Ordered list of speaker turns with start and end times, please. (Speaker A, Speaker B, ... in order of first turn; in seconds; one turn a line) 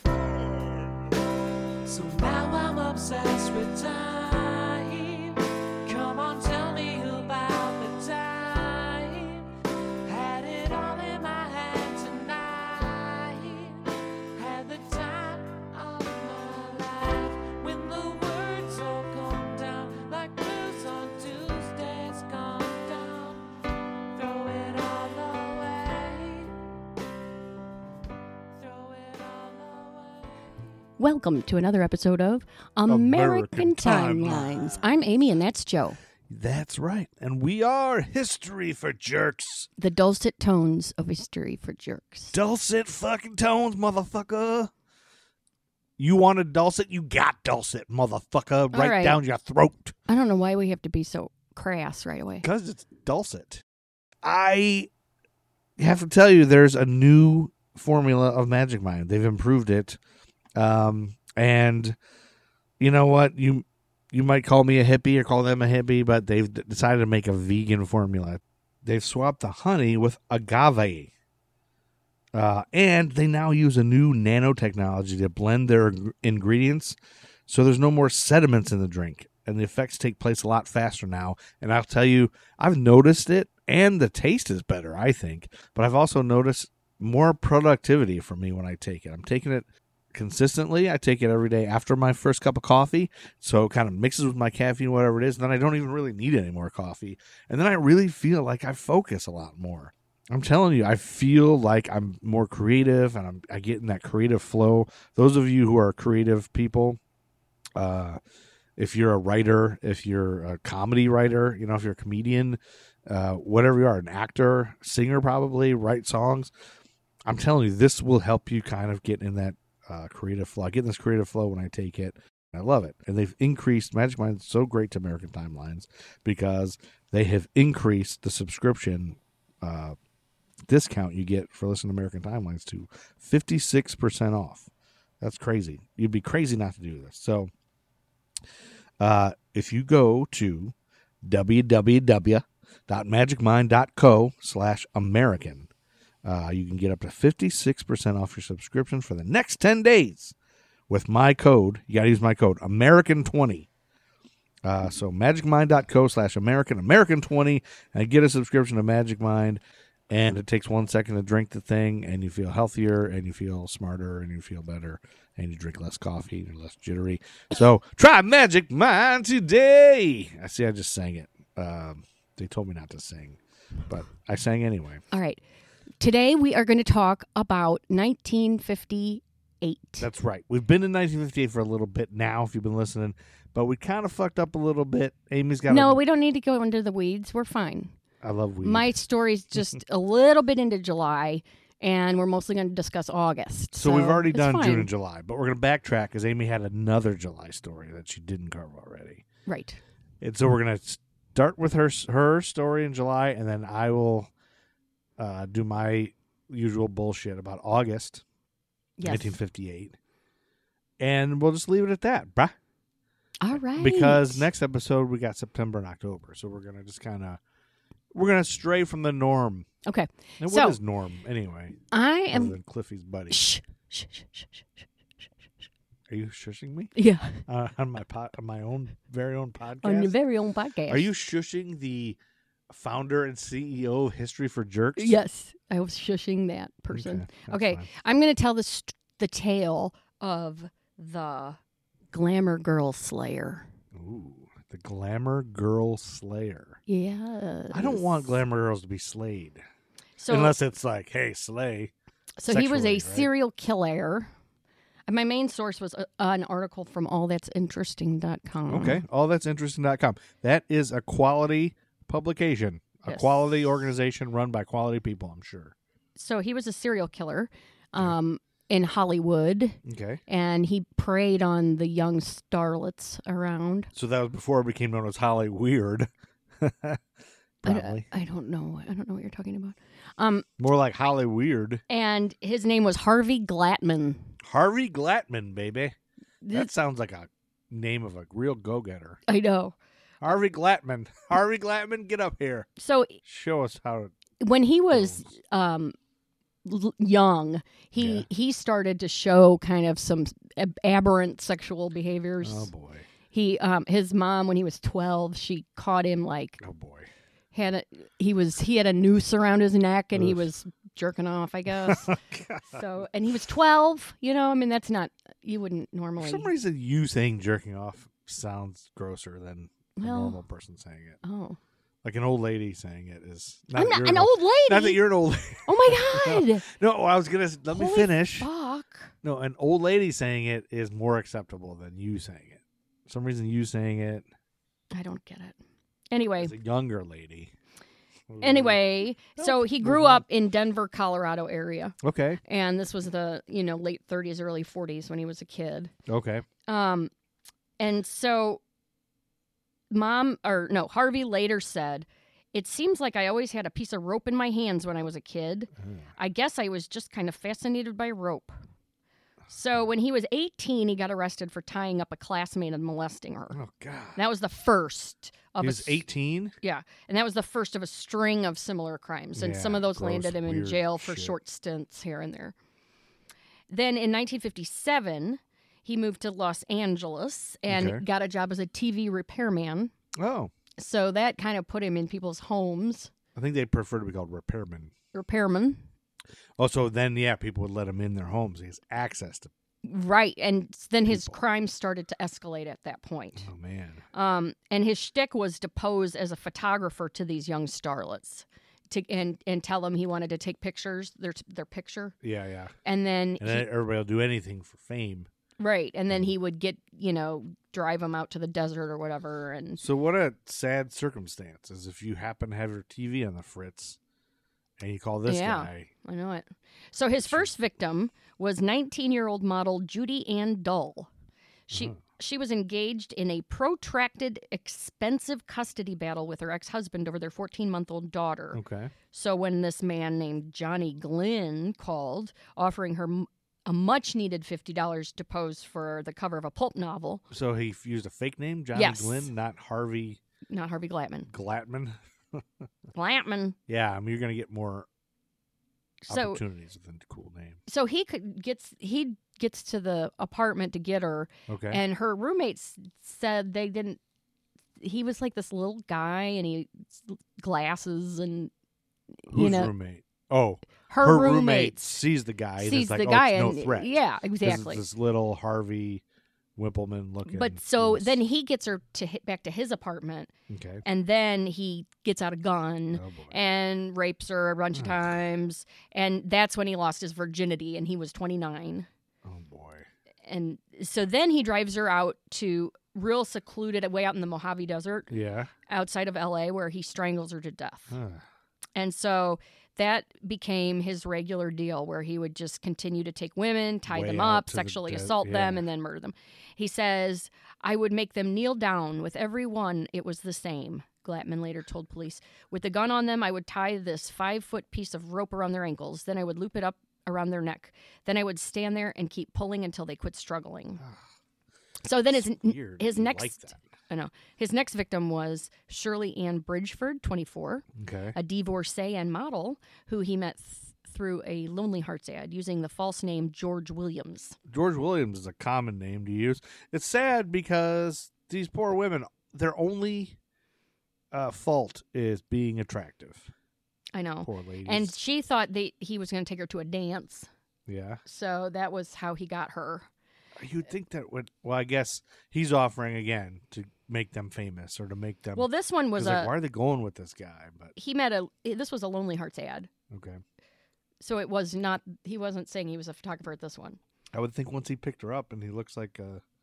Speaker A: 1.8-9.5
Speaker A: 10.0-23.5
Speaker A: 24.1-26.5
Speaker A: 28.6-30.3
Speaker B: 31.0-36.0
Speaker C: 32.9-34.9
Speaker C: 36.3-39.7
Speaker B: 39.8-42.4
Speaker C: 42.3-44.7
Speaker C: 46.0-50.0
Speaker B: 48.7-49.2
Speaker B: 50.1-52.5
Speaker C: 52.4-53.6
Speaker C: 54.2-54.9
Speaker C: 55.8-60.0
Speaker C: 60.5-62.0
Speaker C: 62.8-71.1
Speaker C: 72.3-107.0
Speaker C: 107.8-108.2
Speaker C: 108.8-116.5
Speaker C: 117.2-129.9
Speaker C: 130.7-134.7
Speaker C: 135.2-137.5
Speaker C: 139.0-145.7
Speaker C: 146.2-150.3
Speaker C: 150.9-153.7
Speaker C: 154.6-175.0
Speaker B: 175.1-175.4
Speaker B: 176.0-180.1
Speaker C: 180.0-186.0
Speaker B: 185.7-187.9
Speaker C: 188.2-188.9
Speaker B: 188.6-194.9
Speaker C: 193.8-199.2
Speaker B: 199.5-199.8
Speaker C: 200.2-204.3
Speaker C: 205.2-208.2
Speaker B: 209.0-209.4
Speaker C: 209.0-209.9
Speaker C: 211.0-212.6
Speaker B: 213.4-214.5
Speaker C: 213.7-217.4
Speaker C: 218.1-219.7
Speaker B: 219.8-220.8
Speaker C: 220.4-221.8
Speaker B: 221.9-222.6
Speaker C: 222.3-223.4
Speaker B: 223.3-224.8
Speaker C: 226.1-226.9
Speaker B: 226.9-227.4
Speaker C: 227.4-230.1
Speaker B: 229.8-231.1
Speaker C: 230.9-232.2
Speaker C: 232.7-235.2
Speaker B: 235.0-241.6
Speaker C: 236.9-237.9
Speaker B: 242.1-243.7
Speaker C: 243.9-246.8
Speaker B: 246.9-248.3
Speaker C: 247.7-249.6
Speaker B: 250.2-250.5
Speaker C: 250.3-251.9
Speaker B: 252.4-254.3
Speaker C: 252.5-253.3
Speaker B: 255.1-259.0
Speaker C: 258.7-265.7
Speaker B: 263.1-263.4
Speaker B: 266.1-273.9
Speaker C: 269.8-270.2
Speaker C: 273.9-277.0
Speaker C: 277.6-278.1
Speaker B: 277.6-280.4
Speaker C: 280.6-281.8
Speaker B: 281.9-284.3
Speaker C: 284.4-285.9
Speaker B: 286.4-286.7
Speaker C: 286.5-289.2
Speaker B: 289.3-289.8
Speaker C: 290.2-292.7
Speaker B: 292.8-293.2
Speaker C: 293.2-294.1
Speaker B: 294.4-295.9
Speaker C: 294.9-295.2
Speaker B: 296.6-302.7
Speaker C: 298.0-298.2
Speaker C: 302.4-303.1
Speaker B: 303.3-306.6
Speaker C: 306.6-307.1
Speaker B: 307.5-312.1
Speaker C: 310.1-310.4
Speaker C: 311.7-312.8
Speaker B: 312.7-316.5
Speaker C: 316.2-321.2
Speaker B: 319.9-320.4
Speaker B: 321.2-321.6
Speaker C: 322.0-328.5
Speaker B: 323.7-325.0
Speaker B: 325.6-326.6
Speaker B: 327.7-329.1
Speaker C: 329.2-334.2
Speaker B: 334.9-335.6
Speaker B: 336.1-336.5
Speaker C: 336.4-337.5
Speaker C: 338.3-340.2
Speaker B: 338.4-345.9
Speaker C: 342.0-342.4
Speaker C: 346.1-346.4
Speaker B: 346.7-347.1
Speaker B: 347.8-348.6
Speaker B: 349.9-358.5
Speaker C: 355.8-356.1
Speaker B: 359.5-363.6
Speaker C: 363.5-364.2
Speaker B: 364.1-366.0
Speaker C: 365.6-366.6
Speaker B: 366.6-372.6
Speaker C: 369.3-371.4
Speaker B: 373.7-379.9
Speaker C: 377.7-378.0
Speaker C: 380.1-380.5
Speaker B: 380.8-383.1
Speaker C: 383.4-384.9
Speaker B: 385.1-385.8
Speaker C: 386.6-389.5
Speaker B: 389.8-393.5
Speaker C: 391.1-391.3
Speaker C: 393.4-394.0
Speaker B: 394.1-402.1
Speaker C: 402.2-402.7
Speaker B: 402.8-403.7
Speaker C: 403.4-405.3
Speaker B: 405.6-409.8
Speaker C: 409.8-414.0
Speaker C: 414.8-415.9
Speaker B: 415.2-421.1
Speaker C: 417.2-417.5
Speaker B: 421.7-428.6
Speaker C: 421.7-422.0
Speaker C: 428.5-428.9
Speaker B: 429.1-437.2
Speaker C: 437.3-440.2
Speaker B: 438.7-439.3
Speaker B: 440.5-441.3
Speaker C: 441.3-442.7
Speaker B: 442.9-443.6
Speaker C: 443.7-444.9
Speaker B: 446.0-446.4
Speaker C: 446.1-447.6
Speaker B: 447.7-454.0
Speaker C: 451.5-451.8
Speaker B: 454.8-458.5
Speaker B: 459.2-459.7
Speaker C: 459.3-466.0
Speaker B: 460.9-462.0
Speaker B: 462.6-464.8
Speaker C: 466.6-468.2
Speaker B: 467.2-470.3
Speaker C: 470.5-470.8
Speaker B: 470.8-478.9
Speaker C: 472.9-473.4
Speaker C: 474.7-475.1
Speaker C: 479.2-479.9
Speaker B: 480.2-485.1
Speaker C: 485.1-485.5
Speaker B: 485.7-487.9
Speaker C: 487.9-488.2
Speaker B: 488.7-510.8
Speaker C: 493.9-495.6
Speaker B: 511.8-524.4
Speaker C: 512.1-513.6
Speaker C: 517.8-518.2
Speaker C: 524.5-530.2
Speaker C: 531.1-533.3
Speaker B: 533.9-537.3
Speaker C: 534.2-534.9
Speaker C: 537.7-538.0
Speaker B: 538.0-539.9
Speaker C: 540.4-547.7
Speaker B: 545.3-546.3
Speaker B: 547.8-549.7
Speaker C: 549.9-550.2
Speaker B: 551.0-553.8
Speaker C: 554.1-556.2